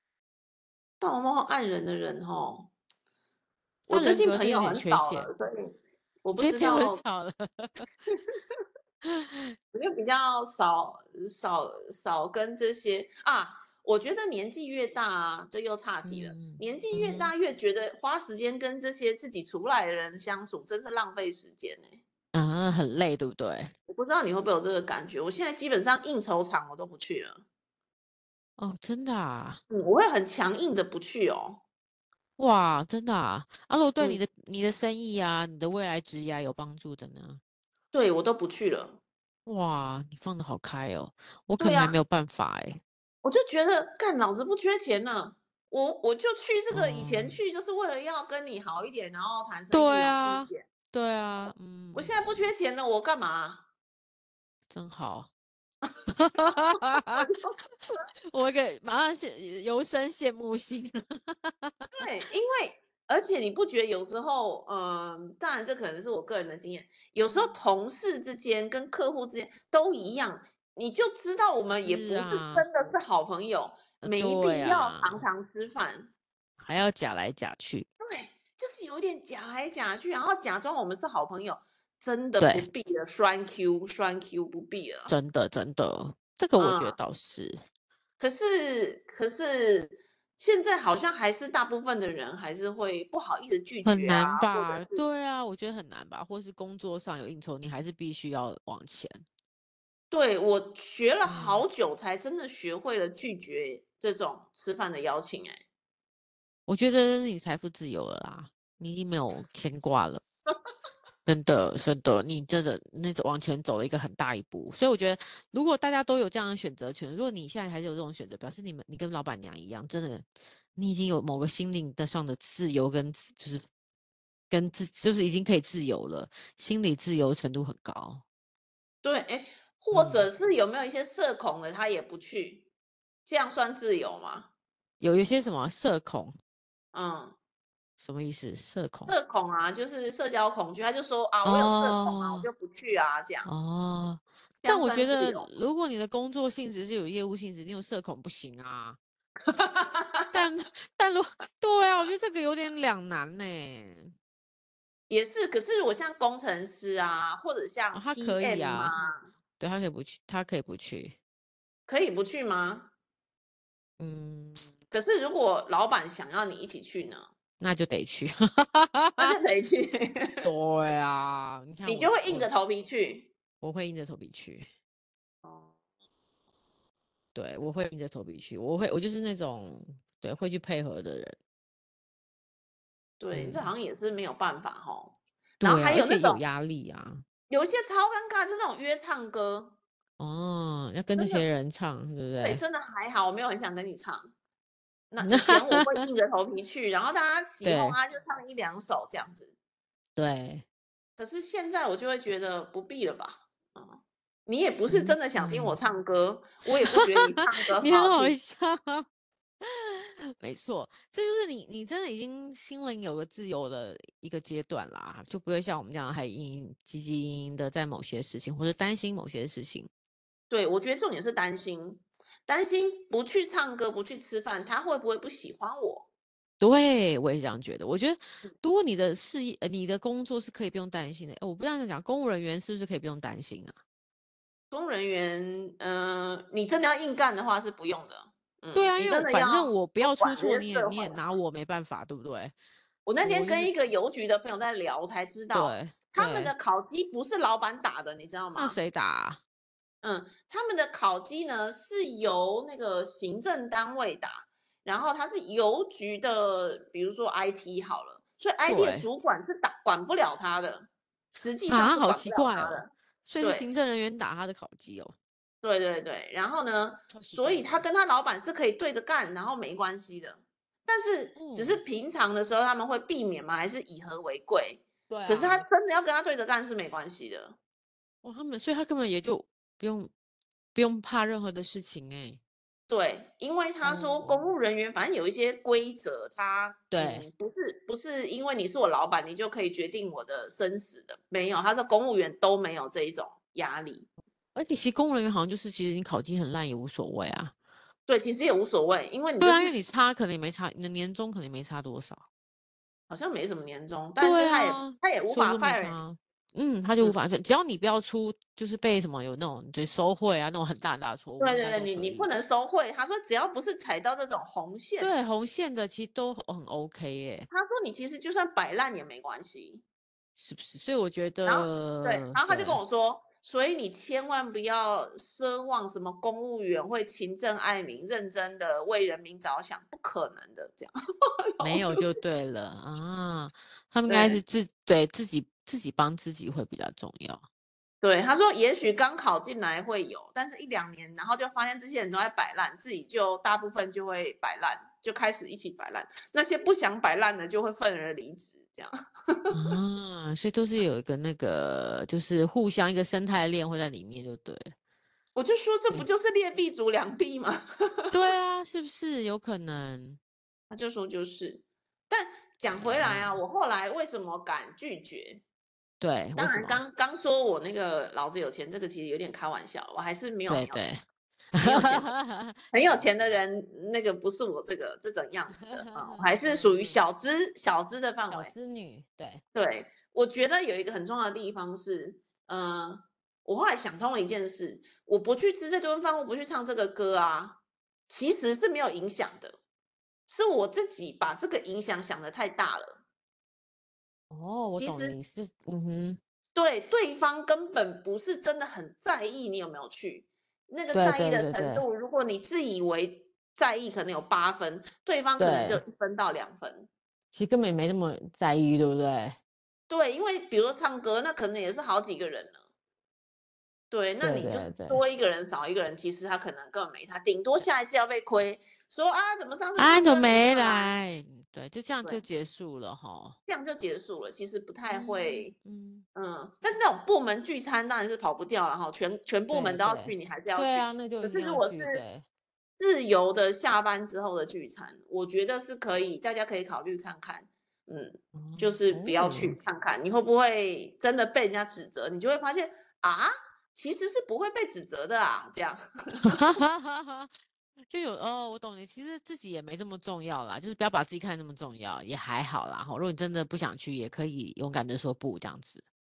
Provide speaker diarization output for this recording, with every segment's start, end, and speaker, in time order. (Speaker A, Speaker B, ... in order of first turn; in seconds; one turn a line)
Speaker A: 1.0-2.7
Speaker B: 3.9-5.3
Speaker A: 3.9-7.0
Speaker B: 6.4-7.9
Speaker A: 8.1-8.6
Speaker B: 9.0-9.5
Speaker A: 9.7-22.0
Speaker B: 16.1-17.3
Speaker B: 22.3-23.7
Speaker A: 23.9-27.4
Speaker B: 28.6-29.6
Speaker A: 29.7-31.6
Speaker B: 32.4-37.4
Speaker A: 37.9-39.0
Speaker B: 39.5-42.8
Speaker A: 41.6-42.0
Speaker A: 43.2-50.7
Speaker B: 46.7-47.4
Speaker B: 49.7-52.5
Speaker A: 51.9-53.6
Speaker B: 54.7-55.3
Speaker B: 56.1-57.3
Speaker A: 56.5-57.6
Speaker B: 58.3-61.7
Speaker A: 62.0-76.1
Speaker B: 67.3-67.5
Speaker B: 71.6-72.7
Speaker B: 74.0-75.2
Speaker B: 76.6-77.9
Speaker A: 78.0-85.1
Speaker B: 82.4-82.7
Speaker B: 85.1-87.6
Speaker A: 86.6-87.0
Speaker A: 88.2-95.0
Speaker B: 93.8-99.2
Speaker A: 100.1-105.6
Speaker B: 101.3-101.7
Speaker B: 106.7-110.2
Speaker B: 111.3-123.7
Speaker B: 124.5-128.2
Speaker A: 129.0-132.7
Speaker B: 129.9-130.3
Speaker A: 133.3-134.5
Speaker B: 135.0-136.3
Speaker A: 136.9-137.4
Speaker B: 138.0-139.1
Speaker A: 139.1-143.5
Speaker B: 141.4-142.5
Speaker B: 143.5-149.0
Speaker A: 144.6-145.5
Speaker A: 149.5-150.4
Speaker B: 150.3-154.1
Speaker A: 155.1-159.3
Speaker B: 157.9-158.9
Speaker B: 159.6-161.2
Speaker A: 161.9-162.9
Speaker B: 164.0-164.7
Speaker A: 164.9-167.3
Speaker B: 167.6-169.4
Speaker A: 169.2-170.5
Speaker B: 170.4-172.5
Speaker A: 171.9-173.3
Speaker B: 173.6-174.7
Speaker A: 175.4-175.7
Speaker B: 177.3-181.4
Speaker A: 183.2-186.4
Speaker B: 183.3-183.7
Speaker B: 185.6-187.2
Speaker A: 187.5-189.8
Speaker B: 190.2-192.6
Speaker A: 191.2-191.5
Speaker A: 192.4-194.3
Speaker A: 195.1-199.5
Speaker B: 195.2-195.9
Speaker B: 197.6-198.0
Speaker B: 200.2-200.7
Speaker A: 201.2-208.4
Speaker B: 204.9-205.8
Speaker B: 207.0-209.1
Speaker B: 209.6-219.9
Speaker A: 220.5-226.1
Speaker B: 226.6-233.8
Speaker A: 234.7-241.3
Speaker B: 238.8-242.5
Speaker A: 243.1-248.8
Speaker B: 243.2-243.7
Speaker B: 245.5-246.5
Speaker B: 248.6-249.4
Speaker A: 250.0-263.7
Speaker B: 258.7-259.1
Speaker B: 261.7-265.1
Speaker A: 265.6-277.6
Speaker B: 267.1-267.9
Speaker B: 271.4-271.8
Speaker B: 275.1-275.7
Speaker B: 278.2-280.1
Speaker B: 280.8-282.4
Speaker A: 282.9-294.1
Speaker B: 283.8-284.5
Speaker B: 286.9-287.3
Speaker B: 294.6-297.5
Speaker A: 298.1-299.8
Speaker B: 299.4-302.2
Speaker A: 303.1-306.0
Speaker B: 304.2-312.3
Speaker A: 311.4-315.1
Speaker B: 315.0-317.5
Speaker A: 317.5-319.8
Speaker B: 320.4-322.8
Speaker A: 321.4-330.9
Speaker A: 331.6-332.1
Speaker B: 331.6-337.4
Speaker A: 334.1-334.4
Speaker A: 338.0-349.8
Speaker B: 349.5-354.7
Speaker A: 355.4-358.1
Speaker B: 358.1-360.2
Speaker A: 360.7-365.4
Speaker B: 362.7-363.4
Speaker B: 366.0-366.8
Speaker A: 366.4-370.8
Speaker B: 370.5-371.0
Speaker B: 371.5-373.4
Speaker A: 371.6-372.1
Speaker A: 372.7-378.5
Speaker B: 375.6-377.0
Speaker B: 378.3-379.4
Speaker A: 379.5-389.6
Speaker A: 390.3-393.0
Speaker B: 394.3-396.2
Speaker A: 394.8-395.2
Speaker A: 396.6-406.9
Speaker B: 400.9-401.9
Speaker B: 405.4-405.8
Speaker B: 407.3-409.4
Speaker A: 409.9-412.6
Speaker A: 413.9-421.0
Speaker B: 414.2-415.0
Speaker B: 419.8-423.4
Speaker A: 423.5-425.5
Speaker B: 424.9-426.1
Speaker A: 426.1-432.0
Speaker B: 429.5-432.2
Speaker A: 432.8-446.6
Speaker B: 438.4-439.6
Speaker B: 446.3-447.3
Speaker B: 447.9-455.8